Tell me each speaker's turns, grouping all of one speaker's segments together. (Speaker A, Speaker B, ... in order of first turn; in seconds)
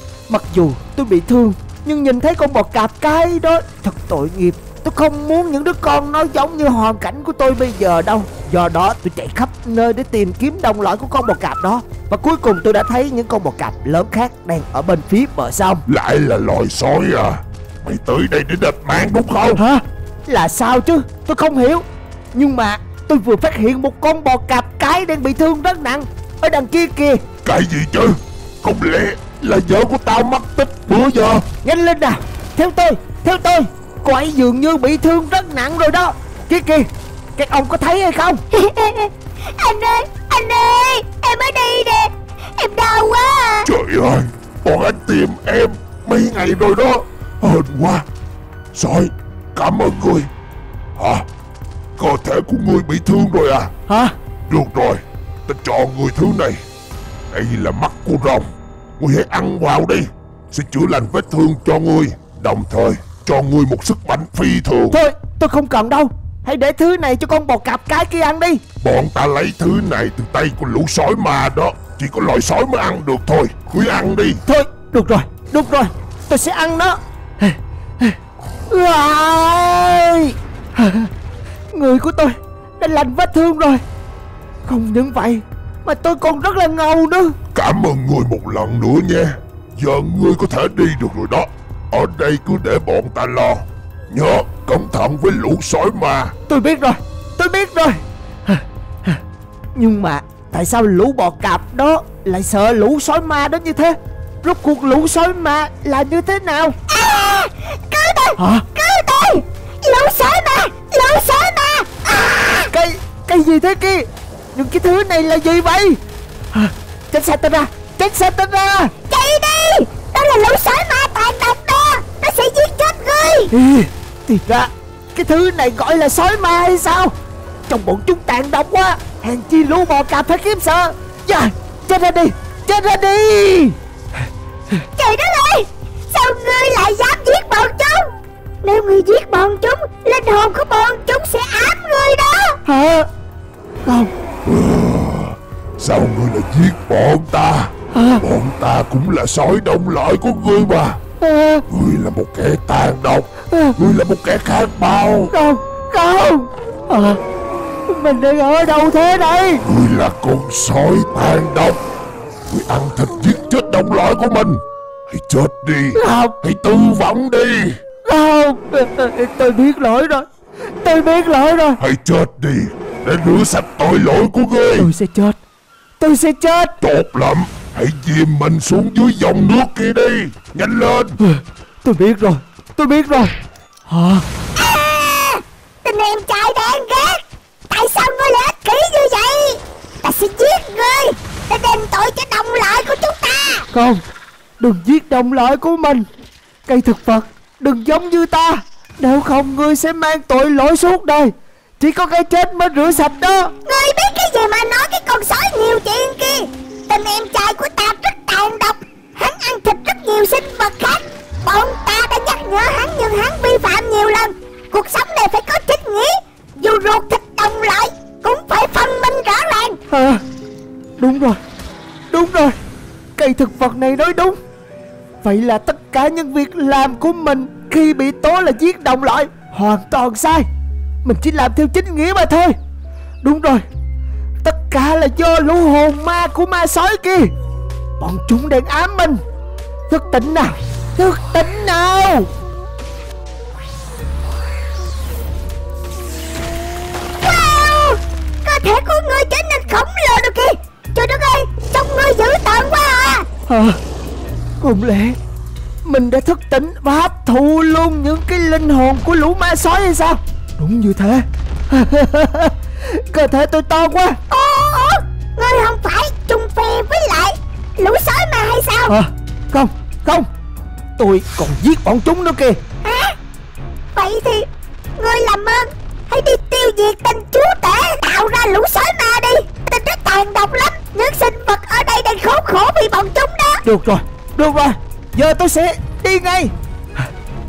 Speaker A: 0.3-15.8, 19.6-27.2, 31.6-38.4, 53.9-54.1, 64.9-68.6, 74.5-78.2, 78.7-81.1, 81.7-83.8, 84.7-87.4, 96.5-99.2, 99.8-106.8, 108.4-108.7, 112.7-116.0, 116.5-118.9, 123.5-127.1, 127.7-133.8, 142.7-143.1, 143.8-144.1, 147.9-148.2, 151.2-151.7, 155.3-157.2, 157.9-159.6, 166.0-166.4, 168.1-170.3, 170.8-171.8, 174.8-175.4, 176.0-176.8, 181.2-183.3, 183.9-184.2, 193.7-194.0, 194.6-196.1, 196.7-203.5, 219.9-220.2, 221.0-221.4, 222.1-222.6, 223.2-224.4, 225.2-230.5, 231.0-232.6, 233.2-233.6, 234.4-237.3, 238.0-239.2, 239.9-242.3, 253.5-253.8, 254.6-255.2, 255.8-264.2, 268.9-270.3, 271.0-272.6, 283.6-286.5
Speaker B: 15.9-19.6, 27.4-31.5, 43.6-48.0, 48.7-50.3, 51.0-51.3, 52.0-53.7, 54.5-56.6, 57.3-58.5, 59.0-65.0, 68.8-74.4, 87.5-96.3, 144.4-151.0, 151.7-155.3, 159.6-161.8, 162.5-167.8, 171.8-174.9, 176.8-181.2
Speaker C: 38.5-43.7, 106.9-112.7, 119.1-123.5, 135.0-142.6, 184.6-193.7, 203.7-219.8, 247.2-253.3, 264.3-268.9, 272.8-273.1, 273.9-283.6